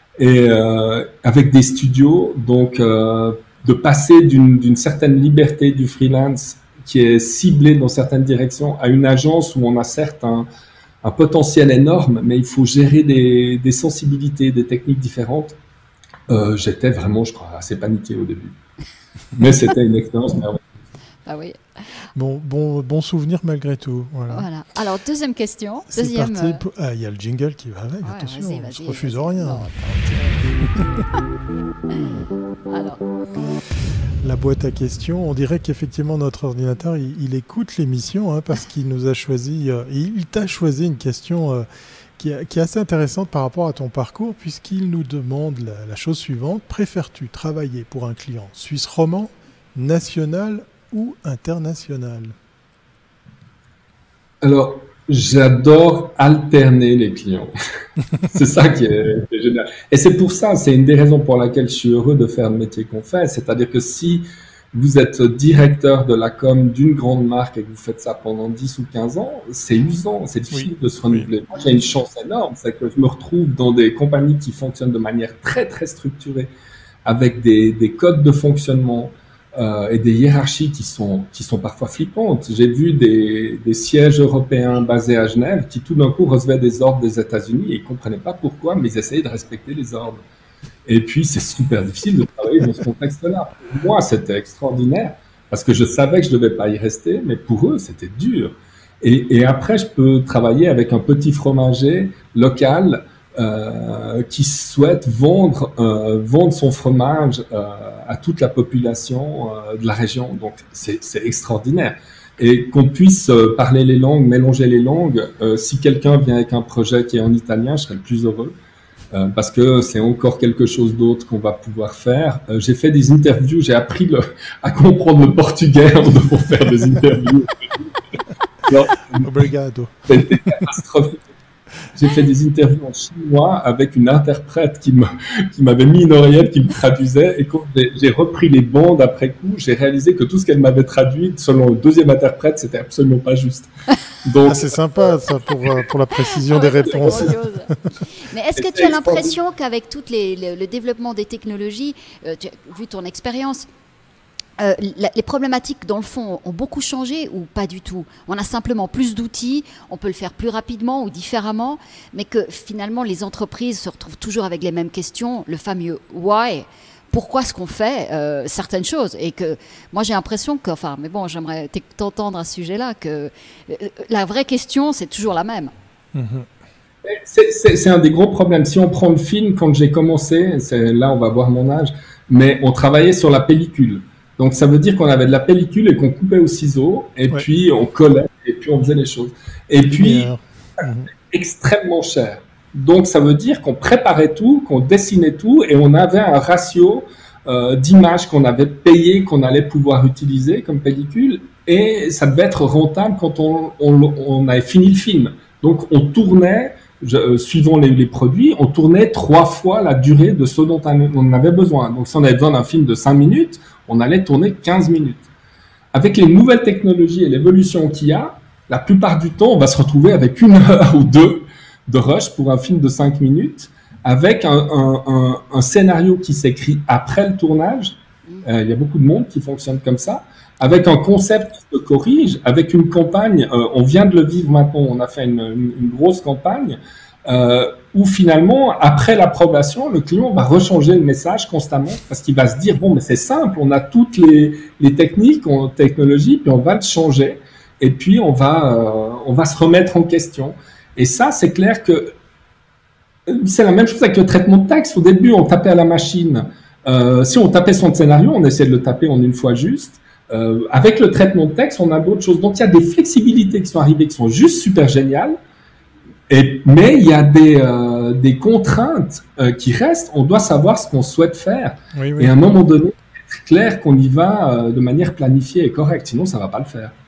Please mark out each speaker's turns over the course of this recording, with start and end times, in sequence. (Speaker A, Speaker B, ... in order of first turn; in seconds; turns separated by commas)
Speaker A: 0.2-10.5, Speaker A: 11.0-15.6, Speaker A: 16.3-18.6, Speaker A: 19.3-20.6, Speaker B: 21.3-21.6, Speaker C: 22.1-24.5, Speaker B: 24.3-26.6, Speaker C: 25.9-29.7, Speaker B: 28.0-30.8, Speaker C: 30.6-31.0, Speaker B: 31.9-33.0, Speaker C: 34.2-41.7, Speaker C: 42.2-52.4, Speaker A: 54.4-57.5, Speaker A: 58.2-76.5, Speaker C: 70.5-71.3, Speaker A: 77.0-90.2, Speaker A: 90.9-118.6, Speaker A: 119.1-127.9, Speaker A: 128.7-129.5, Speaker C: 129.2-130.7, Speaker A: 130.1-131.3, Speaker A: 131.9-143.7, Speaker A: 144.2-145.1, Speaker C: 144.4-147.8, Speaker B: 146.2-153.7, Speaker A: 148.6-149.4, Speaker B: 154.6-175.7, Speaker C: 176.1-176.5, Speaker A: 177.0-190.3, Speaker C: 189.9-191.1, Speaker A: 191.3-215.3, Speaker A: 215.9-252.1, Speaker A: 253.3-265.4, Speaker A: 266.3-276.9, Speaker C: 271.9-272.3